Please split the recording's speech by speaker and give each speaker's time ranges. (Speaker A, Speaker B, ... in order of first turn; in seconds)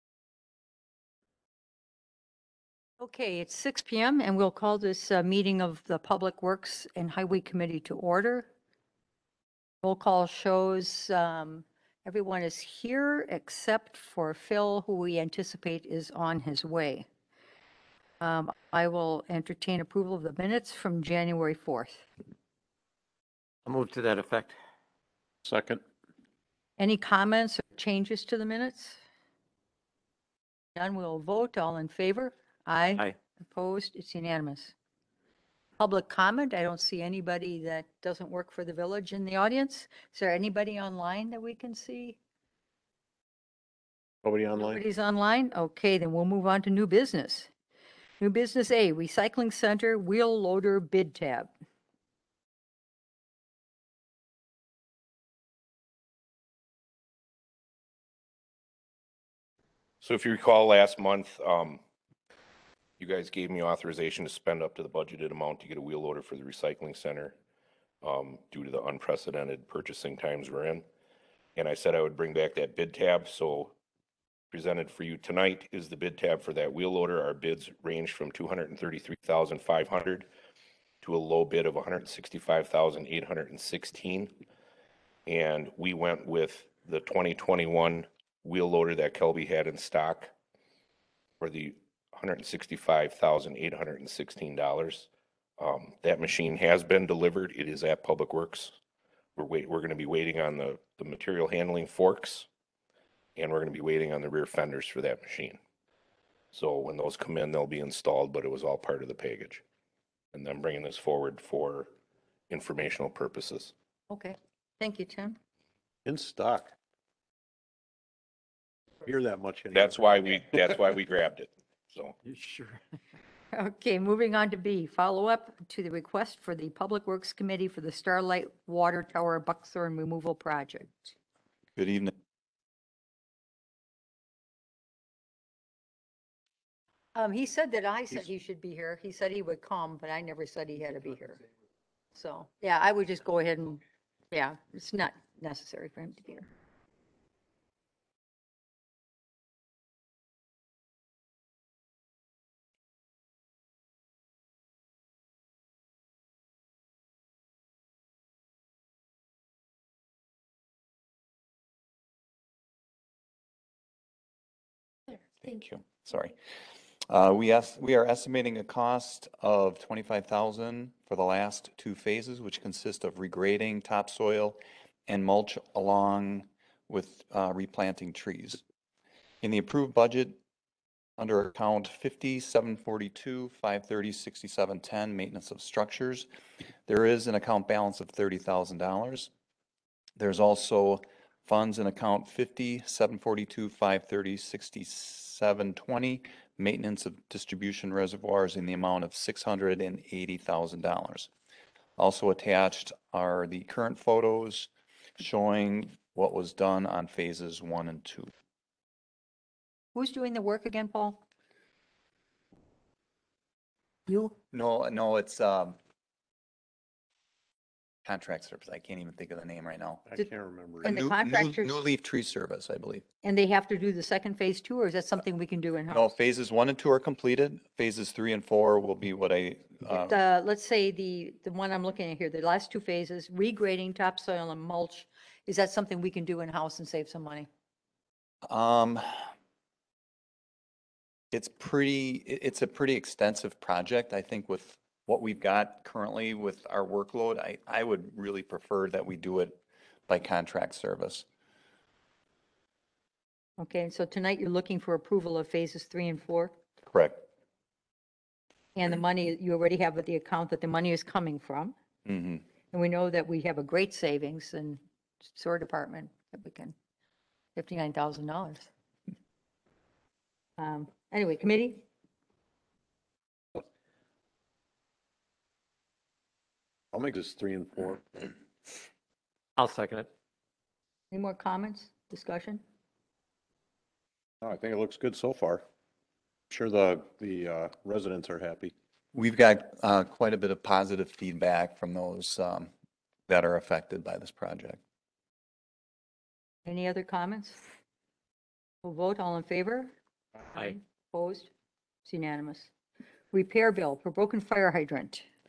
Speaker A: 3.0-8.5, 9.8-17.1, 18.2-22.1, 26.8-29.0, 30.8-34.7, 35.8-42.2, 44.6-47.5, 48.2-51.5, 114.1-115.4, 123.5-131.2, 137.2-141.4, 142.2-146.5, 209.9-211.2, 214.1-214.3, 220.8-221.8, 223.2-226.1, 229.9-237.5, 253.6-256.6, 258.8-261.8, 262.7-266.7, 267.6-268.7, 270.6-271.9, 281.1-282.6, 296.6-297.6, 298.8-299.9, 300.6-301.5, 302.1-302.7, 303.3-305.3
Speaker B: 23.6-24.6, 122.2-122.8, 279.6-280.1
Speaker C: 25.4-25.8, 44.2-44.8, 116.1-116.7, 119.0-120.8, 220.1-220.9, 276.9-278.3, 284.4-285.6, 286.5-288.7
Speaker D: 60.0-61.8, 63.0-67.4, 68.0-70.9, 71.6-73.8, 74.5-80.3, 81.0-84.3, 85.3-90.3, 91.4-95.1, 95.6-98.8, 99.4-102.5, 103.4-105.6, 106.5-109.6, 110.3-111.9, 112.5-113.7, 119.7-122.2
Speaker E: 131.8-132.1, 165.4-166.4, 167.1-178.6, 179.4-180.4, 181.2-186.3, 186.9-189.3, 190.2-201.3, 202.0-208.3, 214.5-215.8, 218.1-220.1, 220.8-223.1, 225.9-230.2, 238.4-239.3, 241.3-251.3, 256.8-257.2, 262.1-262.4, 289.1-292.7, 293.3-294.8